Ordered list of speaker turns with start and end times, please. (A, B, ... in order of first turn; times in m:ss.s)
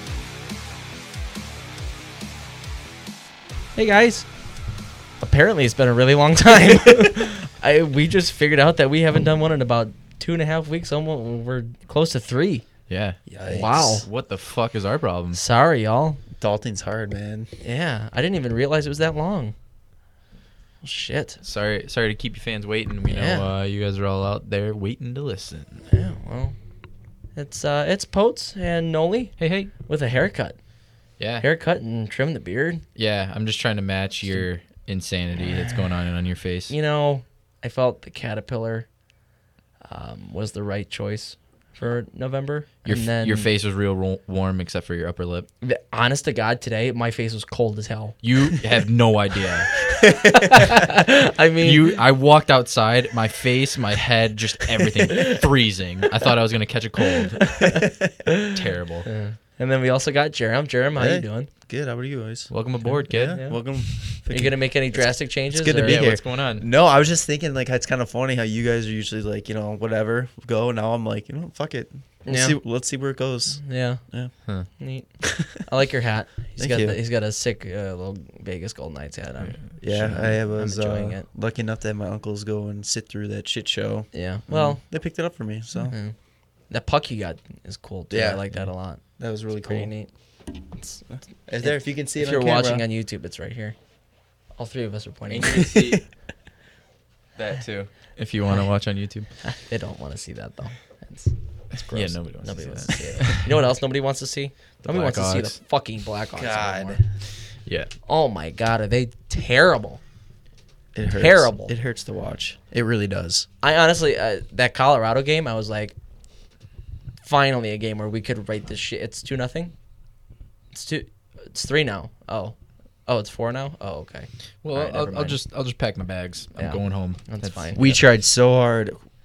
0:03.8-0:04.3 A
0:05.2-0:12.6 A
0:12.9-0:13.2 B
0:13.3-0:13.9 C
0:13.4-0:14.0 A
0:14.0-0:15.4 B
0:15.3-0:16.2 A
0:16.4-0:17.5 C
0:17.6-0:19.5 A
0:20.8-0:21.4 A
0:21.4-0:25.8 B
0:23.1-0:23.5 A
0:25.9-0:26.5 A
0:27.4-0:30.6 A
0:29.4-0:29.7 B
0:31.2-0:31.4 B
0:31.4-0:32.8 A
0:33.0-0:36.7 B
0:36.7-0:38.9 A
0:39.9-0:43.5 A
0:42.8-0:45.5 B
0:45.6-0:48.2 A
0:48.2-0:49.7 B
0:49.8-0:51.9 A
0:50.2-0:50.5 C
0:51.6-0:57.6 B
0:55.1-0:55.4 A
0:57.5-0:58.5 A
0:57.6-0:57.9 C
0:58.4-0:59.1 B
0:59.0-1:01.5 A
1:01.0-1:02.5 C
1:02.5-1:03.6 B
1:03.0-1:14.3 C
1:03.1-1:06.0 A
1:05.8-1:06.7 B
1:12.2-1:12.6 A
1:13.6-1:14.0 A
1:14.7-1:21.3 A
1:16.6-1:17.0 C
1:19.8-1:25.9 C
1:24.1-1:24.8 A
1:25.9-1:26.1 A
1:26.7-1:29.0 A
1:28.1-1:28.4 C
1:29.2-1:29.9 C
1:29.7-1:30.1 A
1:30.7-1:33.8 A
1:31.5-1:32.8 C
1:34.6-1:35.7 A
1:35.3-1:36.0 B
1:37.4-1:39.3 B
1:39.4-1:47.0 A
1:41.8-1:43.4 B
1:44.8-1:45.6 B
1:46.3-1:47.0 C
1:47.6-1:47.9 B
1:48.0-1:50.0 A
1:50.9-1:53.4 C
1:51.1-1:51.7 A
1:53.6-1:55.9 A
1:57.2-1:59.7 A
2:00.7-2:05.4 A
2:04.6-2:08.0 B
2:06.6-2:07.8 A
2:07.8-2:09.0 C